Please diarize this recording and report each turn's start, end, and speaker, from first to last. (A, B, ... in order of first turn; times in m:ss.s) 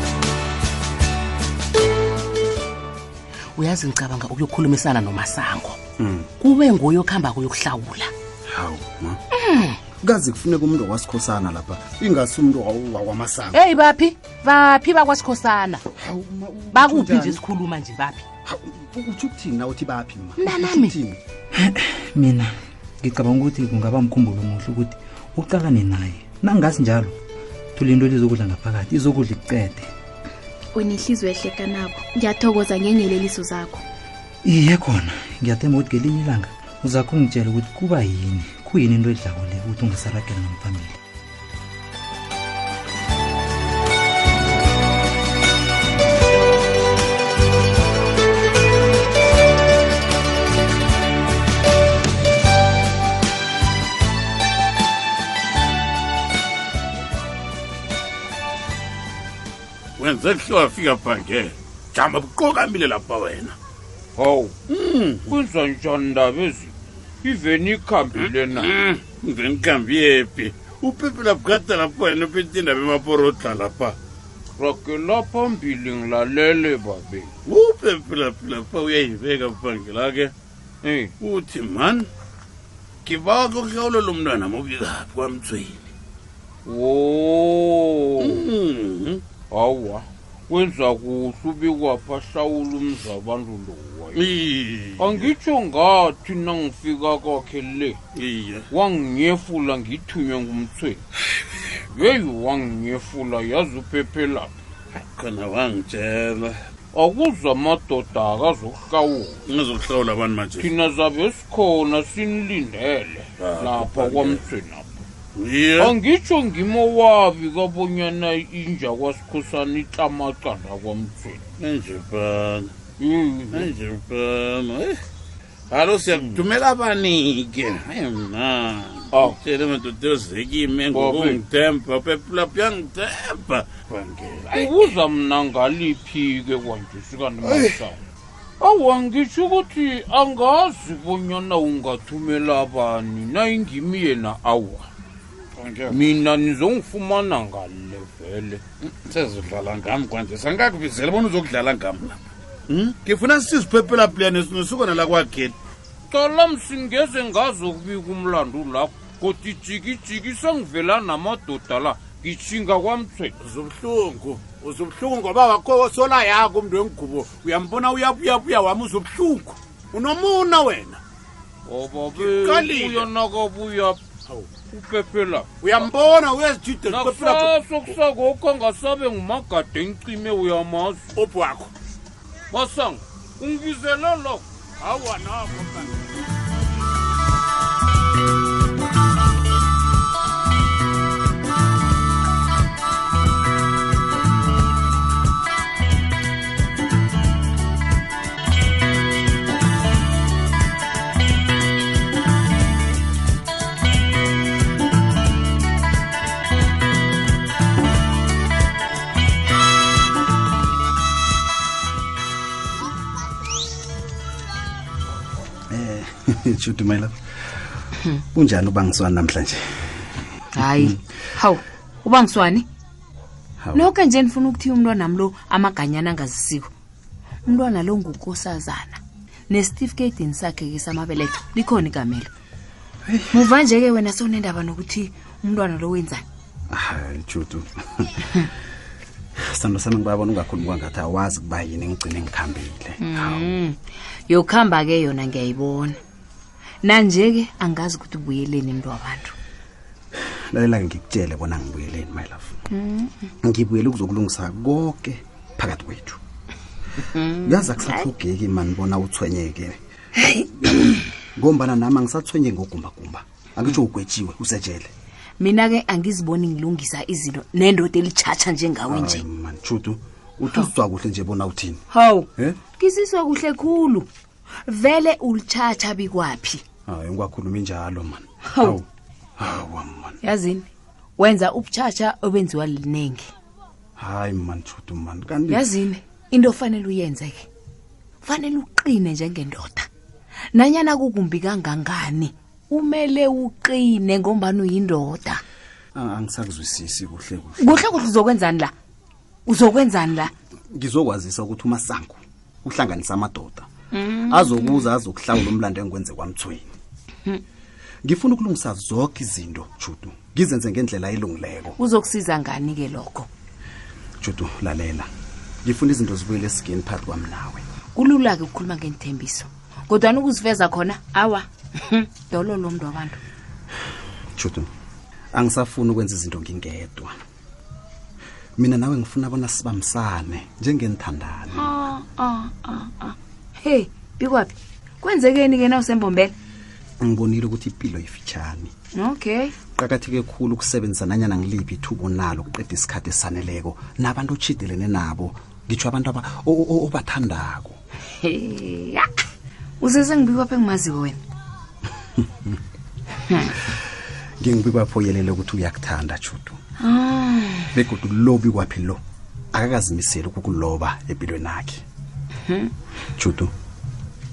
0:03.6-0:05.7 A
0:06.0-0:06.3 B
0:06.4-0:08.0 A
0:08.5-0:09.2 B
0:09.4-0:09.8 C
0:10.0-0:13.6 B
0:13.6-0:15.8 C
0:16.0-0:17.4 B
0:16.7-0:18.2 C
0:18.4-0:21.2 B
0:20.4-0:20.9 C
0:21.6-0:22.5 D
0:23.0-0:27.1 D
0:27.8-0:29.9 D
0:30.7-0:33.8 E
0:34.4-0:41.0 D
1:00.0-1:03.6 F
1:04.2-1:04.6 G
1:04.7-1:05.2 F
1:05.2-1:08.7 G
1:08.6-1:14.0 F
1:14.6-1:17.3 G
1:17.4-1:20.3 F
1:20.8-1:21.1 G
1:21.2-1:22.1 F
1:23.0-1:25.8 F
1:26.6-1:28.5 G
1:28.2-1:29.2 F
1:29.5-1:34.4 G
1:34.1-1:35.3 F
1:35.0-1:38.0 G
1:38.2-1:38.6 F
1:38.7-1:41.0 G
1:41.9-1:44.5 G
1:44.9-1:46.5 F
1:46.9-1:49.4 G
1:49.4-1:50.6 F
1:50.5-1:55.0 G
1:53.4-1:54.4 F
1:55.4-1:55.9 F
1:55.7-2:01.4 G
2:01.6-2:02.7 F
2:03.0-2:03.7 G
2:03.5-2:05.0 F
2:05.7-2:14.7 F
2:06.0-2:06.4 G
2:09.1-2:09.4 G
2:10.8-2:11.4 G
2:14.5-2:18.0 G
2:18.6-2:24.9 G
2:25.6-2:26.0 F
2:25.9-2:28.6 G
2:28.8-2:35.6 F
2:36.1-2:43.3 G
2:43.4-2:51.0 F
2:51.6-2:54.0 G
2:52.1-2:53.0 F
2:54.7-2:55.9 G
2:55.6-2:57.5 F
2:56.8-3:01.1 G
3:01.2-3:01.7 F
3:02.5-3:04.4 G
3:04.8-3:06.1 F
3:35.7-3:37.1 B
3:38.2-3:39.9 B
3:40.5-3:42.6 C
3:40.6-3:41.0 B
3:43.6-3:43.9 B
3:43.7-3:46.7 C
3:47.4-3:52.3 C
3:53.1-3:53.4 B
3:53.3-3:56.2 C
3:56.7-3:58.4 B
3:59.4-4:03.5 B
4:03.0-4:06.0 C
4:06.8-4:09.3 C
4:10.2-4:12.5 B
4:12.7-4:13.3 C
4:13.4-4:16.2 B
4:17.1-4:18.0 C
4:17.3-4:19.8 B
4:20.4-4:24.9 B
4:25.4-4:29.2 C
4:28.9-4:31.8 B
4:31.9-4:34.1 C
4:34.6-4:36.6 C
4:36.8-4:38.8 B
4:38.5-4:38.8 C
4:39.4-4:40.2 B
4:40.2-4:40.7 C
4:41.2-4:43.3 C
4:44.0-4:45.7 B
4:45.5-4:47.5 C
4:48.2-4:49.9 C
4:50.5-4:55.4 C
4:55.9-4:57.9 B
4:57.6-4:58.7 C
4:59.4-5:00.3 C
5:00.7-5:03.7 B
5:03.9-5:04.8 C
5:04.2-5:06.7 B
5:08.0-5:11.8 B
5:11.8-5:13.3 C
5:14.2-5:15.1 B
5:15.6-5:17.6 B
5:18.0-5:23.2 C
5:24.4-5:24.7 B
5:25.3-5:27.1 B
5:28.6-5:31.7 B
5:31.5-5:36.3 C
5:37.0-5:38.7 B
5:38.9-5:39.5 C
5:39.7-5:47.8 B
5:48.2-5:49.1 C
5:49.8-5:51.2 C
5:54.4-5:56.6 B
5:56.8-5:57.7 C
5:57.7-5:59.0 B
5:59.5-6:01.8 B
6:03.2-6:03.5 B